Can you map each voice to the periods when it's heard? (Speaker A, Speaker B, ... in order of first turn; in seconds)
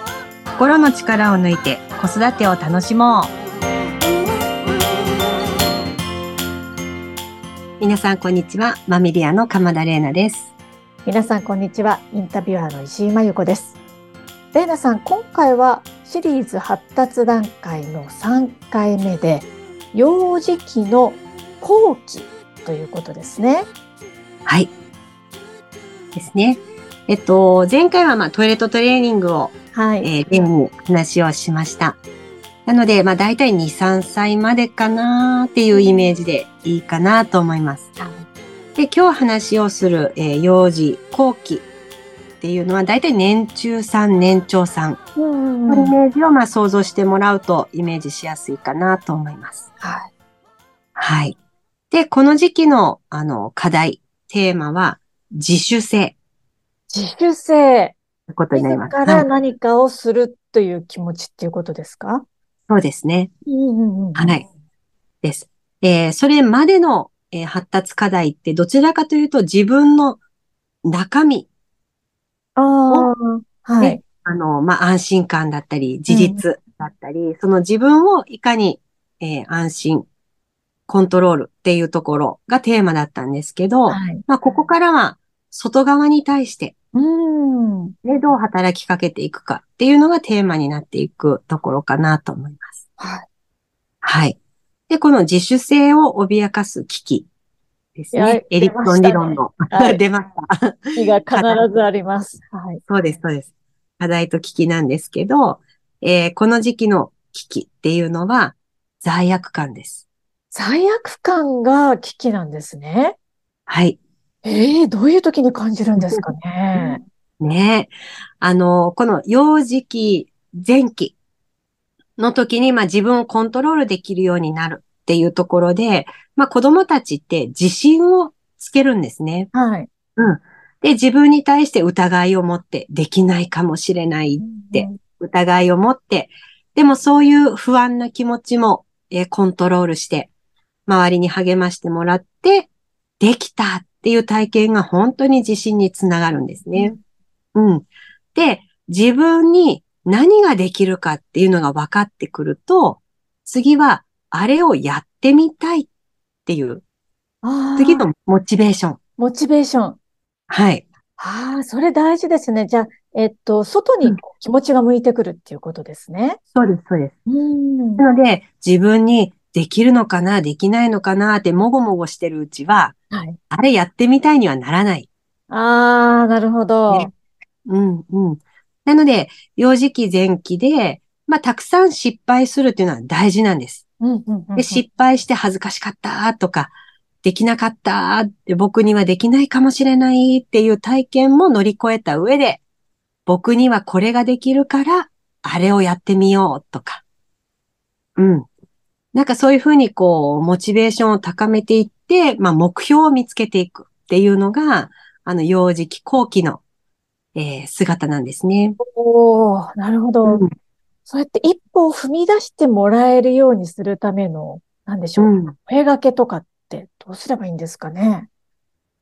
Speaker A: 0.6-3.3, 7.8-10.5, 24.4-24.7, 26.1-32.0, 32.6-37.9, 38.8-41.7, 42.4-45.0, 45.7-49.7, 51.0-51.4, 51.9-56.1, 58.3-59.2, 62.7-63.3, 64.1-64.5, 65.2-70.2, 70.9-71.5, 73.8-80.0, 80.9-86.7, 88.0-92.8, 94.0-94.3, 94.9-97.3, 97.9-101.6, 102.9-110.0, 113.7-114.0, 116.0-121.1, 122.2-129.5, 130.2-140.3, 140.9-146.9, 147.5-155.9, 156.4-156.8, 157.8-159.0, 160.5-160.8, 166.5-167.2, 168.0-172.9, 173.5-175.1, 177.7-183.8, 184.6-186.7, 187.2-192.6, 193.2-197.0, 198.2-198.5, 199.1-206.6, 207.3-208.8, 210.2-210.5, 215.2-215.6
Speaker B: 11.0-13.8, 14.5-23.7, 29.7-30.1, 35.7-36.0, 38.0-38.2, 45.1-45.9, 49.8-50.1, 56.9-58.0, 58.5-62.2, 63.5-64.3, 72.5-74.0, 76.1-76.4, 83.9-84.2, 86.9-87.9, 93.0-93.2, 98.1-100.0, 101.0-102.8, 110.5-113.2, 114.4-117.0, 129.5-129.9, 134.4-135.0, 157.4-158.1, 159.2-160.0, 161.2-166.4, 167.2-168.0, 173.1-173.4, 175.5-177.1, 184.0-184.8, 208.8-210.4, 211.1-218.3